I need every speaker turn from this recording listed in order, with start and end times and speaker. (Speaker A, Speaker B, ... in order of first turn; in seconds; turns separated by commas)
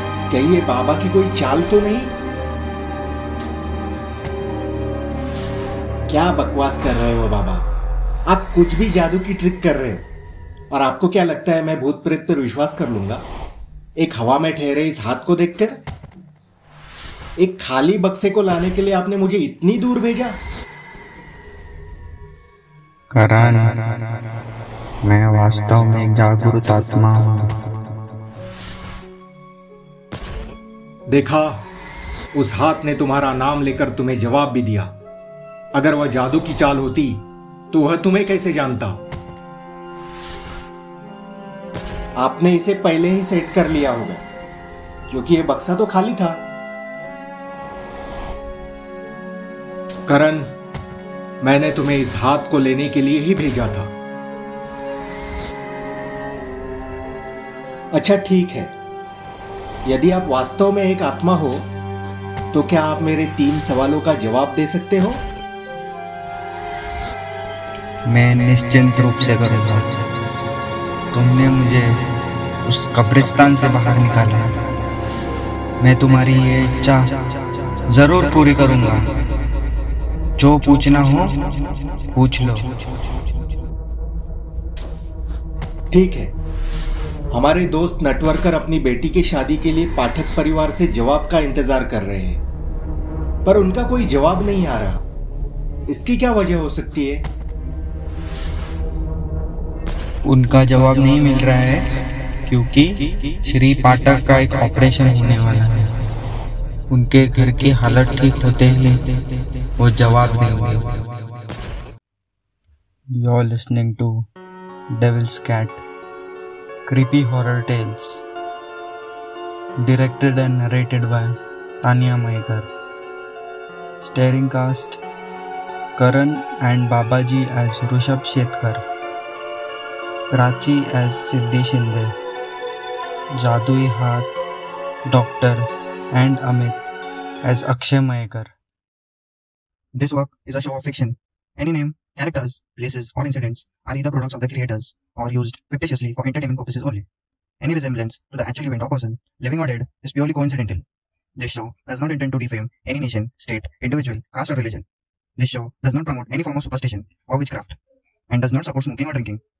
Speaker A: 0.3-2.1, Speaker A: 6.1-7.7, Speaker A: 8.3-10.0, Speaker A: 10.7-13.2, Speaker A: 14.0-15.8, Speaker A: 17.4-20.4, Speaker B: 23.1-24.3, Speaker B: 25.0-27.6, Speaker A: 31.1-31.6, Speaker A: 32.3-34.9, Speaker A: 35.7-39.0, Speaker A: 42.2-44.2, Speaker A: 45.1-46.4, Speaker A: 50.1-50.5, Speaker A: 51.4-53.9, Speaker A: 57.9-58.7, Speaker A: 59.9-61.7, Speaker A: 62.5-65.2, Speaker B: 68.1-70.0, Speaker B: 71.1-72.1, Speaker B: 72.6-74.6, Speaker B: 75.8-79.1, Speaker B: 80.4-82.8, Speaker A: 85.9-86.3, Speaker A: 87.3-92.4, Speaker A: 93.4-95.0, Speaker A: 95.9-97.2, Speaker B: 100.2-106.0, Speaker B: 106.9-109.2, Speaker B: 109.8-111.4, Speaker B: 113.1-114.3, Speaker B: 114.9-115.8, Speaker B: 116.9-118.2, Speaker B: 119.8-122.7, Speaker B: 124.0-125.0, Speaker B: 126.0-128.8, Speaker B: 130.3-132.1, Speaker B: 133.4-134.3, Speaker B: 135.1-136.9, Speaker B: 137.4-138.5, Speaker C: 139.9-147.0, Speaker C: 147.6-150.8, Speaker C: 151.4-154.8, Speaker C: 155.4-157.8, Speaker C: 158.3-159.4